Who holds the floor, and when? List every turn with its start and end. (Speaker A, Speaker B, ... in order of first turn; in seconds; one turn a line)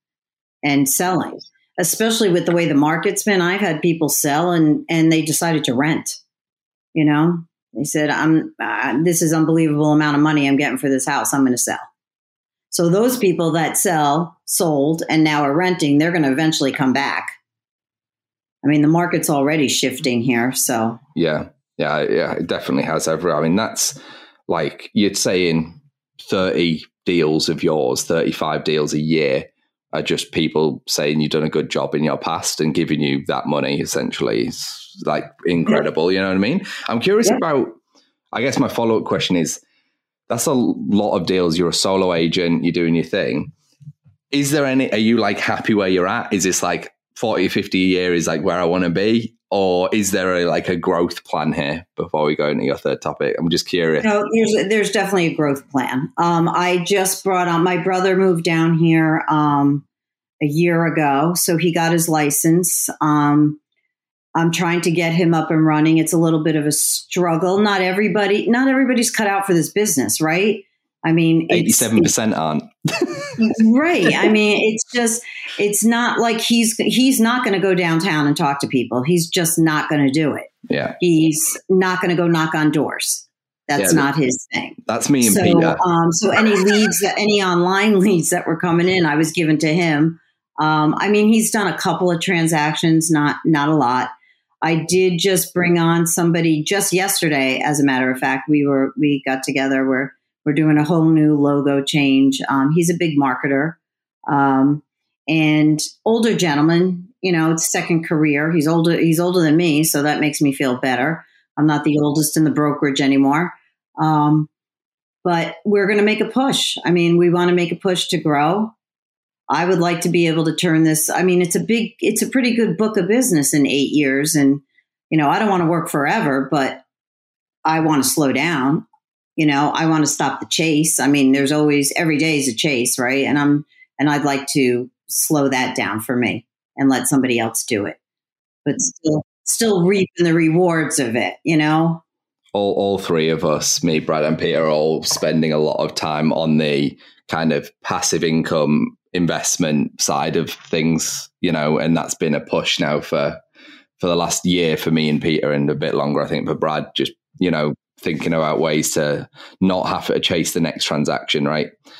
Speaker A: 0.6-6.2
Speaker A: 6.9-11.8
Speaker A: 12.7-17.3
Speaker A: 18.6-21.0
Speaker B: 21.1-23.9
Speaker B: 24.5-37.8
Speaker B: 38.3-39.6
Speaker B: 40.3-43.5
Speaker B: 44.3-54.1
Speaker A: 54.0-59.8
Speaker A: 60.4-63.6
Speaker A: 64.3-72.1
Speaker B: 71.5-73.3
Speaker A: 73.4-94.1
Speaker B: 80.7-81.0
Speaker B: 83.8-84.1
Speaker B: 84.8-85.8
Speaker A: 94.6-114.5
Speaker A: 115.2-118.7
Speaker A: 119.5-126.8
Speaker A: 127.6-128.8
Speaker A: 129.4-138.0
Speaker A: 138.7-142.0
Speaker B: 142.5-153.4
Speaker B: 154.0-161.7